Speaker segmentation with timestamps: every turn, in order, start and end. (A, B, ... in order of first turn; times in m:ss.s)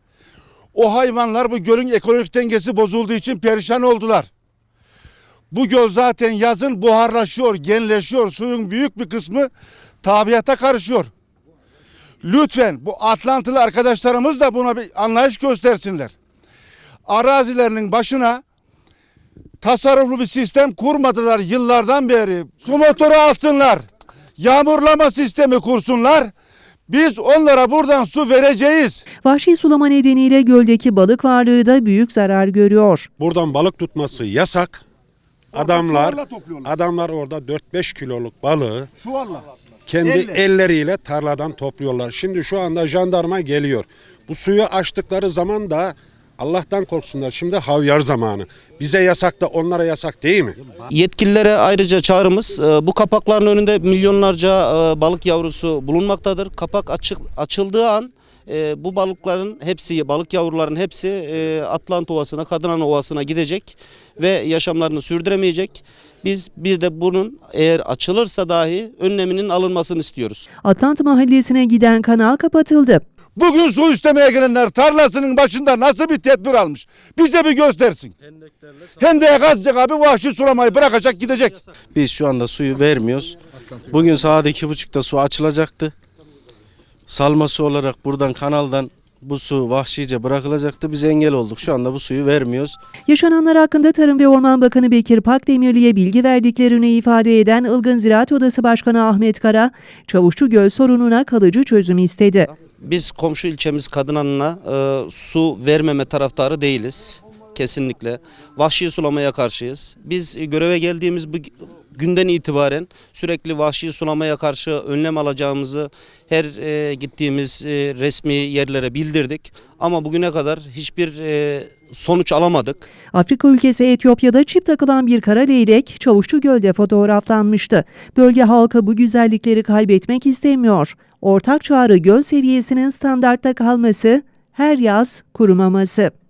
0:00.7-0:04.3 A
0:05.5-0:09.5 A
0:10.0-0:11.1 A
0:12.2-0:16.1 A
0:17.1-0:18.4 A
0:19.6-0:23.8 A
0:24.4-0:26.3 A
0:26.9-0:29.0 A
0:29.2-0:33.1 B
0:33.2-0:34.8 C
0:35.5-0:36.7 A
0:35.5-0:38.9 C
0:39.0-0:39.4 A
0:39.9-0:50.6 C
0:40.0-0:40.4 A
0:50.9-1:10.5 D
1:10.6-1:13.0 B
1:13.4-1:18.2 A
1:19.0-1:21.6 A
1:21.9-1:23.4 E
1:23.9-1:25.9 E
1:27.1-1:32.8 E
1:33.1-1:42.5 B
1:42.7-2:02.9 D
2:03.1-2:16.1 B